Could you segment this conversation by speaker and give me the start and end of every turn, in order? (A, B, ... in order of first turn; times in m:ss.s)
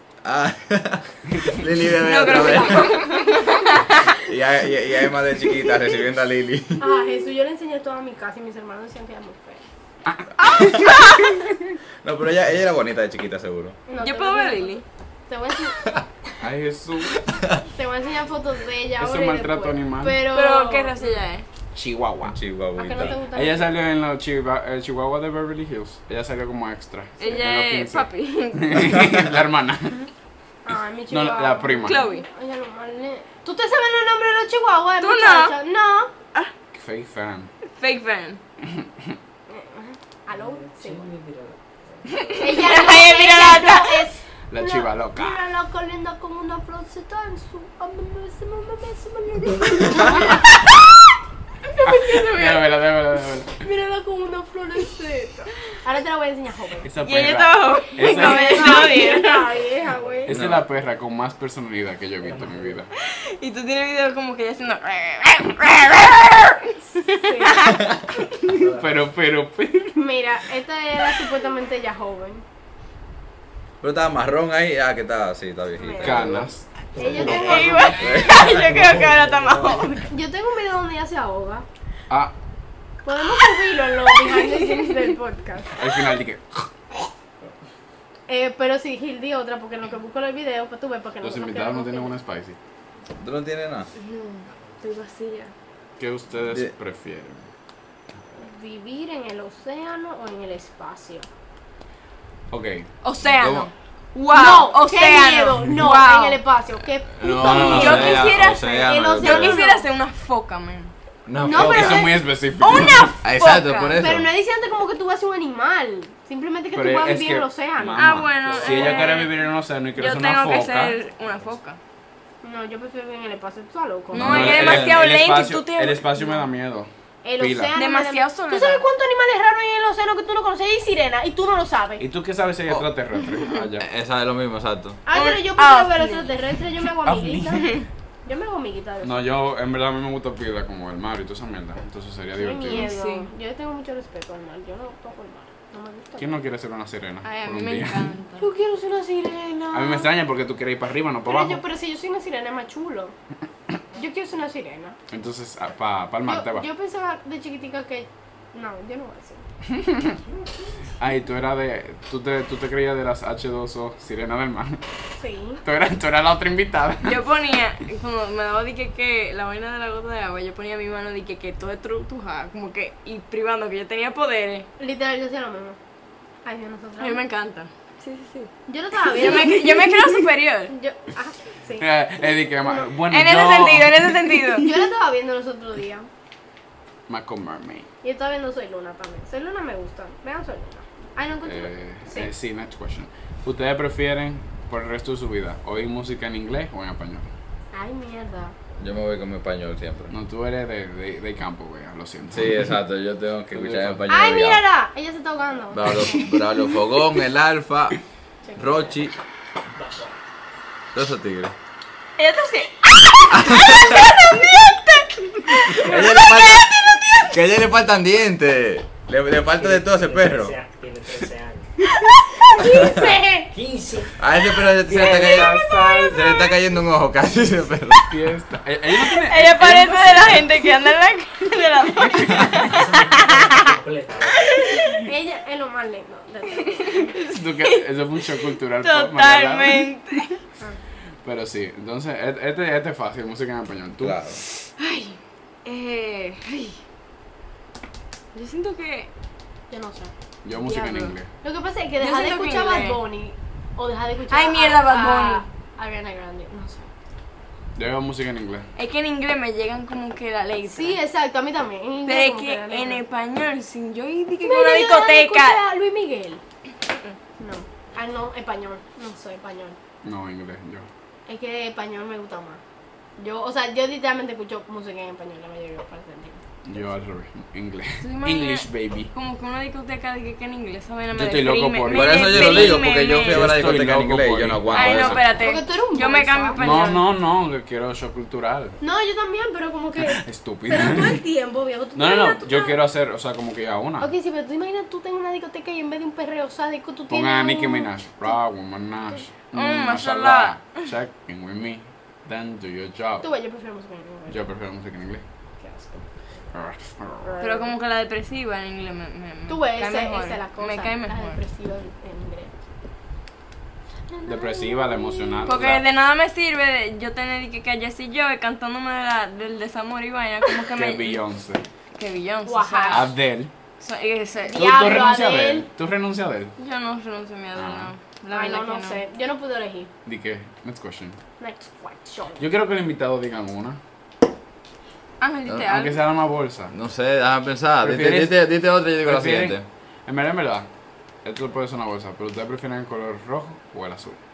0:00.2-0:03.1 A
0:02.0-0:04.2 B
0:04.2-0:06.9 A
0:06.8-0:09.7 C
0:10.1-0:11.8 D
0:10.5-0:11.0 A
0:10.6-0:11.3 B
0:12.0-0:13.8 A
0:13.9-0:16.0 C
0:14.0-0:14.8 B
0:16.4-0:17.2 D
0:17.3-0:17.6 A
0:17.7-0:21.2 C
0:19.0-0:20.3 D
0:20.3-0:21.5 B
0:21.7-0:22.4 D
0:22.2-0:23.2 A
0:22.8-0:23.7 C
0:23.3-0:30.1 D
0:27.2-0:29.2 B
0:30.6-0:36.1 C
0:31.1-0:32.0 D
0:31.8-0:32.2 B
0:35.0-0:35.6 B
0:36.7-0:37.5 D
0:37.8-0:38.4 B
0:38.6-0:39.2 D
0:39.5-0:41.1 C
0:40.3-0:42.7 E
0:42.2-0:44.1 B
0:42.4-0:50.7 C
0:44.5-0:45.4 D
0:51.6-0:53.0 C
0:51.8-0:53.6 D
0:53.6-0:56.9 C
0:56.8-0:58.9 D
0:57.0-0:59.5 B
0:58.0-1:00.4 C
0:59.0-1:00.9 E
1:00.2-1:02.9 D
1:00.3-1:00.6 A
1:02.2-1:02.9 E
1:03.0-1:07.9 B
1:07.0-1:07.8 C
1:08.4-1:10.1 D
1:08.4-1:09.1 E
1:10.0-1:12.4 C
1:13.8-1:16.4 A
1:15.8-1:16.3 B
1:16.0-1:17.9 D
1:17.0-1:18.4 C
1:17.2-1:20.1 B
1:18.0-1:18.6 A
1:18.2-1:19.9 E
1:20.1-1:21.7 C
1:23.0-1:25.8 C
1:24.1-1:25.2 B
1:25.8-1:26.7 D
1:28.3-1:32.2 C
1:31.2-1:32.6 D
1:33.2-1:33.9 A
1:34.0-1:35.5 B
1:36.0-1:37.4 D
1:38.4-1:41.3 C
1:42.5-1:42.9 D
1:43.0-1:46.4 B
1:43.2-1:43.7 A
1:44.3-1:49.8 C
1:47.2-1:48.3 D
1:47.2-1:49.6 A
1:47.4-1:50.9 B
1:51.3-1:52.1 A
1:51.4-1:52.2 C
1:51.5-1:53.1 D
1:52.6-1:54.0 B
1:53.2-1:54.3 A
1:54.0-1:59.2 C
1:56.7-2:01.0 D
1:58.0-1:59.4 B
1:58.5-1:59.0 E
2:00.0-2:01.8 B
2:02.4-2:04.6 C
2:04.1-2:06.5 B
2:04.1-2:05.1 A
2:04.2-2:07.8 D
2:07.2-2:12.0 C
2:07.8-2:08.8 B
2:12.0-2:13.8 D
2:13.8-2:15.0 A
2:15.1-2:19.3 C
2:15.1-2:16.4 B
2:17.0-2:17.8 D
2:19.0-2:22.9 D
2:22.3-2:26.4 C
2:22.6-2:23.3 B
2:26.2-2:28.1 D
2:27.2-2:28.5 B
2:28.4-2:30.1 C
2:29.7-2:31.6 D
2:31.3-2:33.2 C
2:33.9-2:35.0 C
2:35.1-2:36.7 D
2:36.3-2:39.4 C
2:39.7-2:40.2 D
2:41.0-2:44.8 D
2:45.2-2:45.6 C
2:45.6-2:47.2 D
2:47.0-2:54.7 B
2:54.8-2:55.8 C
2:56.4-2:57.2 C
2:57.0-2:58.5 B
2:58.7-3:01.9 C
2:59.0-3:00.7 B
3:01.8-3:04.8 D
3:02.5-3:02.9 C
3:03.1-3:04.7 B
3:04.6-3:06.1 C
3:07.1-3:07.9 D
3:08.0-3:12.3 C
3:11.4-3:17.3 D
3:17.7-3:18.6 C
3:18.8-3:20.1 A
3:20.1-3:22.8 D
3:22.3-3:24.6 A
3:23.5-3:24.1 D
3:24.1-3:26.4 C
3:25.7-3:28.0 A
3:28.4-3:28.9 C
3:28.6-3:29.2 A
3:29.8-3:30.2 E
3:30.9-3:31.5 A
3:32.2-3:37.4 B
3:33.3-3:34.0 A
3:35.8-3:36.7 A
3:37.3-3:40.5 A
3:39.4-3:41.7 E
3:42.4-3:43.5 C
3:42.6-3:43.2 A
3:43.5-3:44.2 E
3:44.2-3:48.1 A
3:44.9-3:46.2 D
3:45.3-3:46.3 C
3:48.0-3:50.6 D
3:49.1-3:53.7 B
3:52.0-3:52.6 D
3:52.6-3:54.6 E
3:54.4-3:54.8 B
3:54.9-3:57.2 C
3:56.9-3:57.8 B
3:57.2-3:59.9 D
3:58.4-4:00.4 B
4:01.2-4:04.2 D
4:04.0-4:04.4 A
4:04.5-4:06.8 B
4:08.3-4:09.1 B
4:09.7-4:10.1 C
4:10.4-4:11.3 D
4:10.7-4:11.0 B
4:10.8-4:16.9 C
4:12.0-4:13.0 B
4:14.3-4:15.4 B
4:17.8-4:18.7 D
4:18.8-4:21.0 B
4:20.7-4:23.0 C
4:22.0-4:25.6 B
4:24.4-4:26.4 C
4:27.4-4:29.8 C
4:30.0-4:30.9 D
4:31.3-4:32.6 C
4:33.2-4:36.4 C
4:36.6-4:39.1 D
4:38.0-4:43.6 B
4:41.2-4:45.3 D
4:41.9-4:45.3 A
4:44.7-4:47.1 B
4:45.4-4:46.9 C
4:46.6-4:48.8 D
4:48.8-4:52.8 C
4:50.0-4:51.2 D
4:52.0-4:54.1 D
4:54.0-4:58.4 C
4:57.1-5:03.3 D
4:59.5-5:00.6 B
5:03.2-5:04.4 C
5:04.3-5:05.2 D
5:05.6-5:06.1 C
5:06.5-5:07.4 D
5:07.3-5:07.7 C
5:07.4-5:11.4 B
5:09.5-5:12.5 C
5:14.1-5:15.6 C
5:14.2-5:15.8 D
5:15.4-5:21.2 B
5:20.7-5:21.6 D
5:22.0-5:23.1 B
5:22.5-5:23.1 C
5:22.9-5:23.5 D
5:23.8-5:24.7 B
5:24.5-5:25.7 C
5:24.6-5:26.5 D
5:26.6-5:29.0 B
5:27.6-5:27.9 D
5:28.3-5:29.9 C
5:30.1-5:31.2 D
5:31.4-5:32.4 C
5:32.4-5:33.8 D
5:35.2-5:36.0 B
5:35.6-5:36.7 D
5:36.7-5:39.6 A
5:37.8-5:38.5 D
5:39.0-5:40.7 D
5:41.2-5:44.2 D